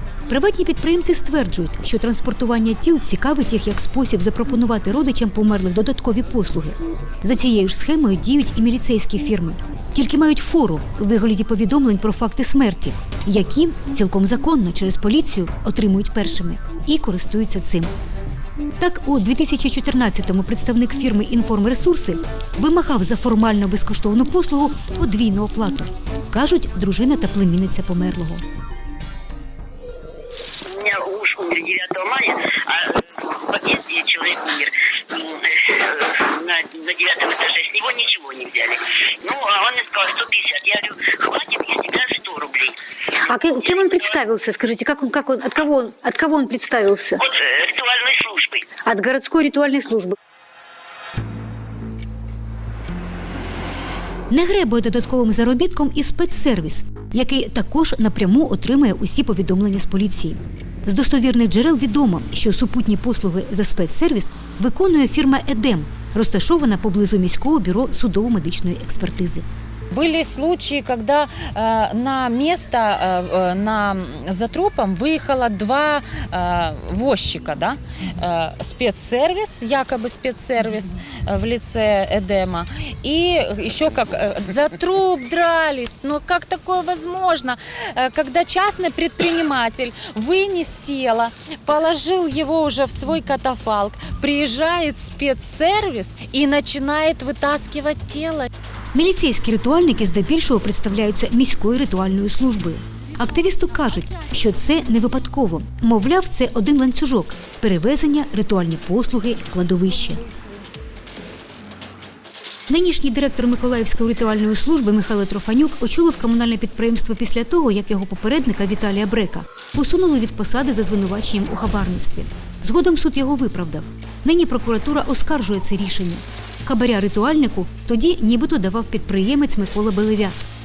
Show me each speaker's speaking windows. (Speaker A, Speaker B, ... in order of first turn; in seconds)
Speaker A: 0.3-17.9, 18.8-28.4, 43.3-47.2, 48.9-50.1, 54.3-69.4, 98.9-110.2, 112.7-130.3
Speaker B: 30.7-42.8, 43.6-44.0, 47.2-48.7
Speaker C: 69.9-98.5